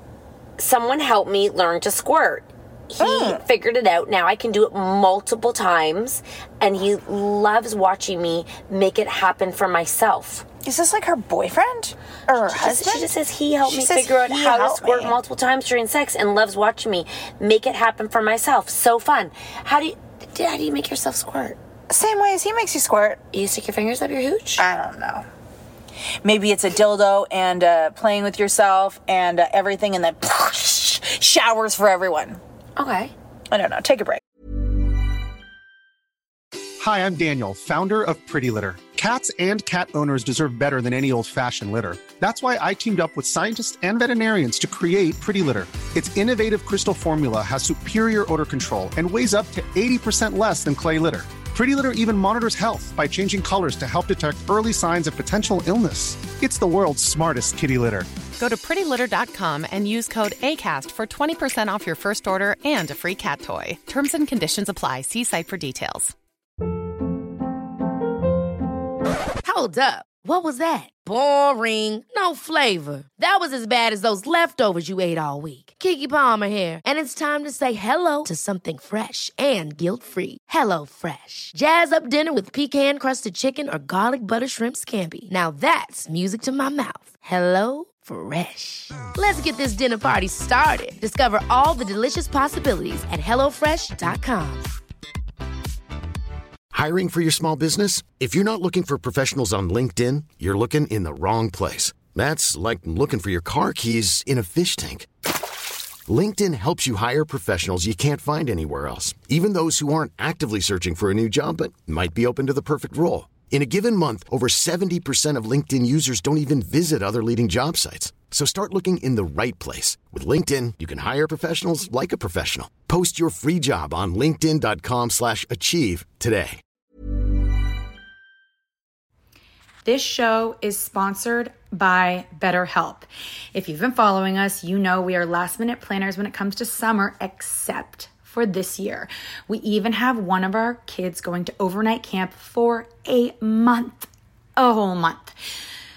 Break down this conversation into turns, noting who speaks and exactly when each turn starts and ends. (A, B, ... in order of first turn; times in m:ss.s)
0:00.6-0:10.4 A
0:03.0-0:03.4 B
0:10.6-0:13.1 B
0:12.4-0:21.6 A
0:13.6-0:15.2 B
0:21.9-0:23.2 B
0:23.3-0:24.6 A
0:24.6-0:25.2 B
0:26.2-0:32.4 B
0:32.8-0:33.1 A
0:33.5-0:34.2 B
0:36.8-0:58.1 C
0:58.4-1:06.1 D
1:09.4-1:34.7 E
1:36.7-1:45.1 F
1:46.1-2:06.6 F
2:09.8-2:25.3 G